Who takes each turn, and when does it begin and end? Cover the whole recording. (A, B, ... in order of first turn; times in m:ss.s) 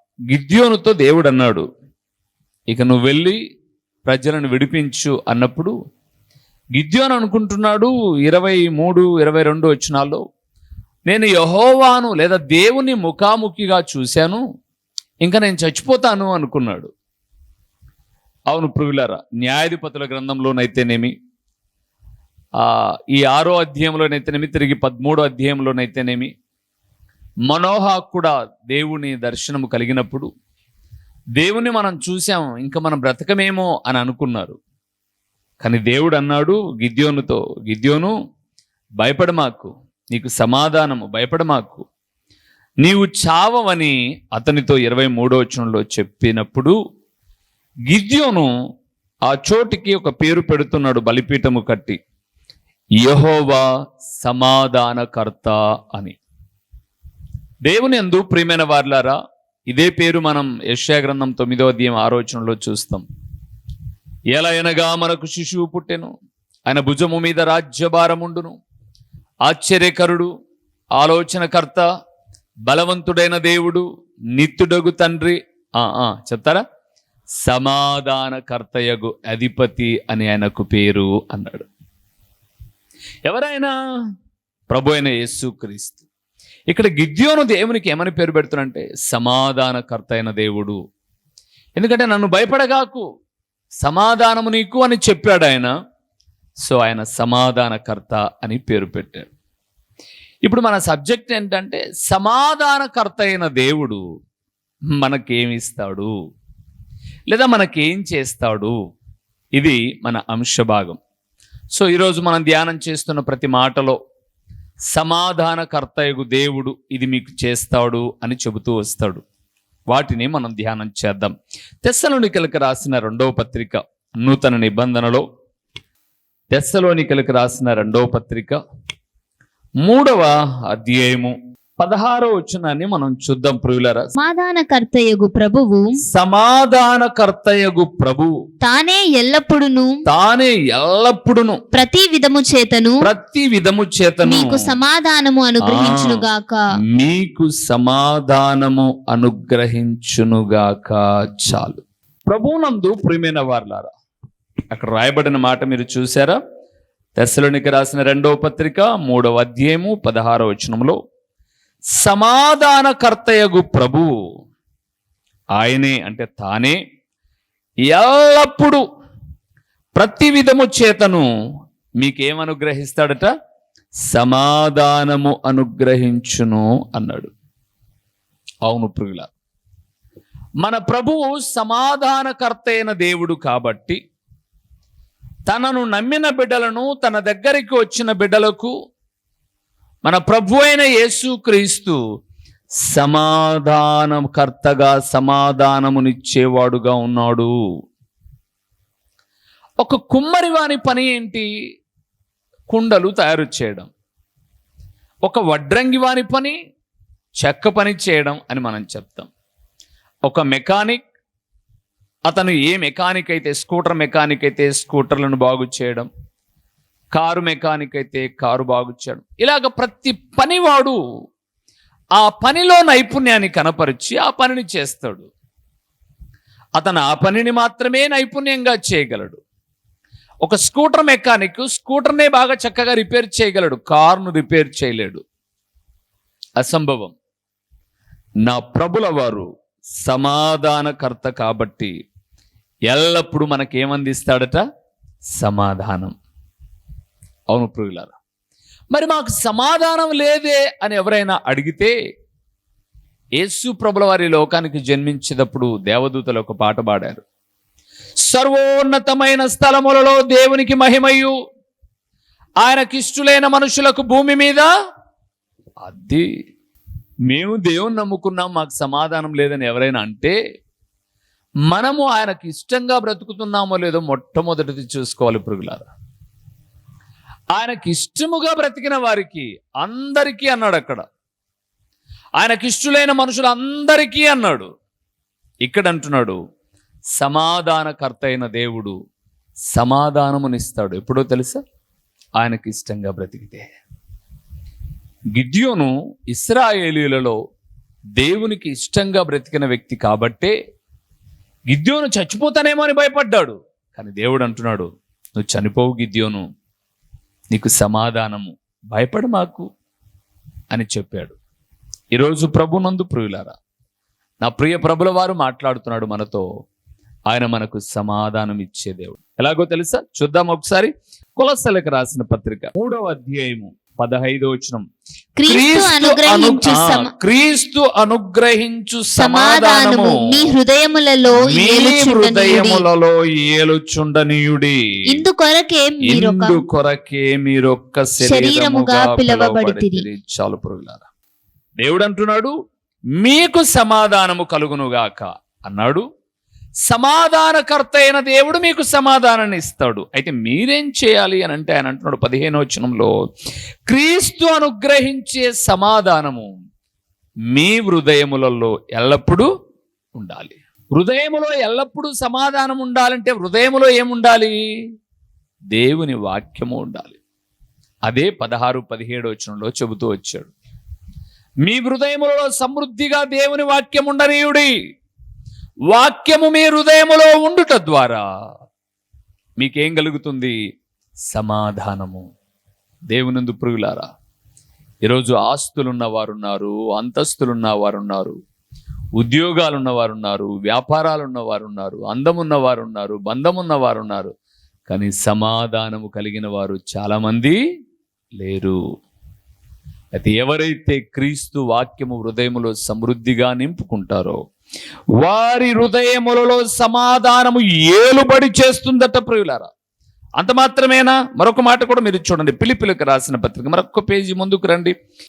0:00.3-0:01.7 A
0:02.7-0:03.4 A
0:04.1-0:05.7 A
0:06.8-0:10.2 A
0:11.1-0:14.4 A
0:15.2-0:16.9 A
0:18.5-0:21.1 A
0:22.6-0:26.3 A
0:27.5-0:30.3 A
0:31.4-0:34.6 A
0:35.6-0:38.1 A
0:39.0-0:41.8 A
0:42.8-0:46.8 A
0:47.9-0:48.5 A
0:49.3-0:52.0 A
0:53.0-0:53.7 A
0:54.2-0:56.2 A
0:57.6-0:59.2 A
0:59.7-1:03.0 A
1:04.3-1:06.1 A
1:06.7-1:08.6 A
1:09.5-1:10.3 A
1:11.0-1:11.8 A
1:12.7-1:16.6 A
1:17.4-1:21.7 A
1:23.3-1:23.7 A
1:24.7-1:26.0 A
1:26.7-1:30.8 A
1:31.8-1:33.0 A
1:33.8-1:35.7 A
1:36.6-1:39.3 A
1:40.4-1:44.0 A
1:44.9-1:46.1 A
1:47.3-1:48.8 A
1:49.6-1:51.0 A
1:51.7-1:54.0 A
1:54.9-1:59.2 A
1:59.9-2:05.2 A
2:06.5-2:08.6 A
2:09.8-2:14.1 A
2:14.2-2:15.8 B
2:16.1-2:18.3 A
2:18.6-2:19.9 B
2:20.1-2:21.6 A
2:21.7-2:23.0 B
2:23.0-2:24.6 A
2:24.3-2:26.6 B
2:25.6-2:26.2 A
2:27.0-2:33.9 A
2:34.7-2:36.4 A
2:37.2-2:41.0 A
2:42.0-2:44.1 A
2:45.6-2:46.8 A
2:47.9-2:48.8 A
2:50.0-2:51.3 A
2:52.0-2:53.3 A
2:54.1-2:57.3 A
2:58.7-2:59.3 A
3:00.6-3:04.0 A
3:05.5-3:08.7 A
3:10.0-3:12.0 A
3:12.9-3:17.5 A
3:19.8-3:21.5 A
3:22.7-3:23.9 A
3:25.2-3:26.6 A
3:27.4-3:29.3 A
3:30.3-3:31.0 A
3:32.3-3:36.1 A
3:37.1-3:41.0 A
3:42.2-3:45.3 A
3:46.8-3:49.4 A
3:50.4-3:55.2 A
3:56.6-3:57.2 A
3:58.5-3:59.5 A
4:00.0-4:01.9 A
4:02.9-4:04.6 A
4:05.4-4:06.2 A
4:07.5-4:08.2 A
4:08.9-4:11.9 A
4:13.4-4:17.2 A
4:18.3-4:21.4 A
4:22.6-4:24.7 A
4:25.8-4:26.3 A
4:27.3-4:30.4 A
4:31.7-4:35.9 A
4:37.5-4:41.0 A
4:42.4-4:44.7 A
4:45.6-4:46.4 A
4:47.2-4:49.0 A
4:49.7-4:51.6 A
4:52.4-4:53.7 A
4:55.4-4:57.4 A
4:58.2-5:00.6 A
5:01.7-5:06.4 A
5:07.5-5:09.7 A
5:10.7-5:11.4 A
5:12.1-5:13.6 A
5:14.4-5:16.5 A
5:17.3-5:24.9 A
5:25.4-5:27.1 B
5:25.5-5:30.2 A
5:29.2-5:32.8 B
5:31.3-5:34.8 A
5:35.1-5:36.6 B
5:36.1-5:41.0 A
5:38.2-5:40.0 B
5:41.8-5:42.5 A
5:43.2-5:46.0 A
5:46.9-5:53.1 A
5:53.9-5:56.5 A
5:57.5-5:59.5 A
6:00.2-6:04.6 A
6:05.7-6:07.2 A
6:08.1-6:10.5 A
6:11.6-6:14.7 A
6:15.9-6:18.2 A
6:19.6-6:20.6 A
6:21.3-6:22.2 A
6:23.1-6:24.1 A
6:25.0-6:28.4 A
6:29.2-6:34.3 A
6:34.9-6:37.6 A
6:38.4-6:38.8 A
6:40.2-6:44.4 A
6:45.2-6:49.7 A
6:50.4-6:55.0 A